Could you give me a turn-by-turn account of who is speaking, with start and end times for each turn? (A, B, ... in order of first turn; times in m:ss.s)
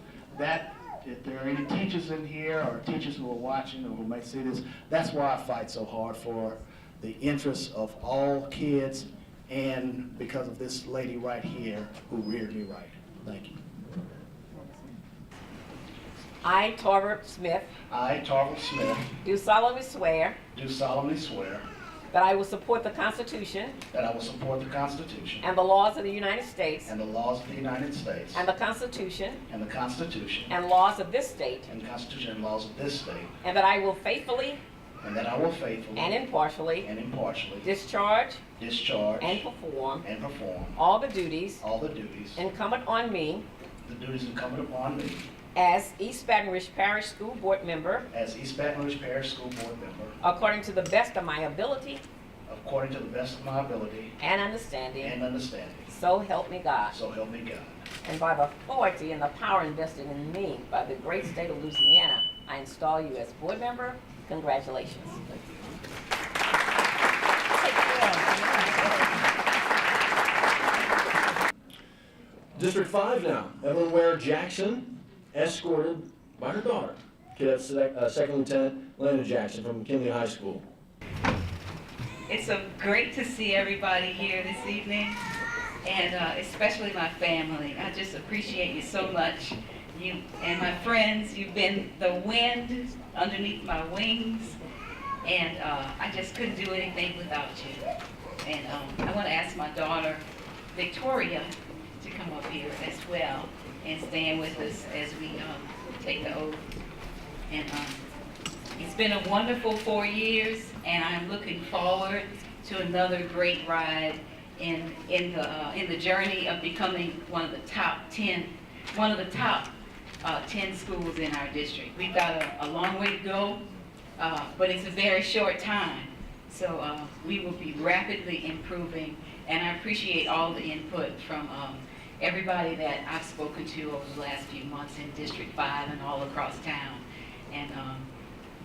0:00.3-0:13.6 A
0:16.4-0:17.7 B
0:17.9-0:19.0 A
0:19.2-0:20.4 B
0:20.5-0:21.6 A
0:22.1-0:23.8 B
0:23.9-0:25.4 A
0:25.4-0:26.9 B
0:26.8-0:28.4 A
0:28.3-0:29.4 B
0:29.5-0:30.5 A
0:30.5-0:31.7 B
0:31.6-0:33.3 A
0:33.4-0:34.6 B
0:35.0-0:36.2 A
0:36.0-0:36.9 B
0:36.8-0:37.7 A
0:37.6-0:38.4 B
0:38.6-0:39.4 A
0:39.2-0:40.0 B
0:40.0-0:40.8 A
0:40.8-0:41.6 B
0:41.6-0:42.4 A
0:42.4-0:43.4 B
0:43.8-0:45.2 A
0:45.6-0:48.1 B
0:48.1-0:50.2 A
0:50.2-0:52.0 B
0:52.5-0:54.1 A
0:54.2-0:55.2 B
0:55.0-0:55.9 A
0:55.9-0:57.0 B
0:56.9-0:57.7 A
0:58.0-1:05.5 B
1:07.6-1:09.0 B
1:12.5-1:20.6 C
1:22.3-1:25.1 D
1:25.8-1:34.6 D
1:35.2-1:37.8 D
1:38.4-1:40.2 D
1:40.7-1:41.5 D
1:42.0-1:46.6 D
1:47.5-1:48.0 D
1:48.8-1:59.7 D
2:00.2-2:03.6 D
2:04.2-2:18.0 D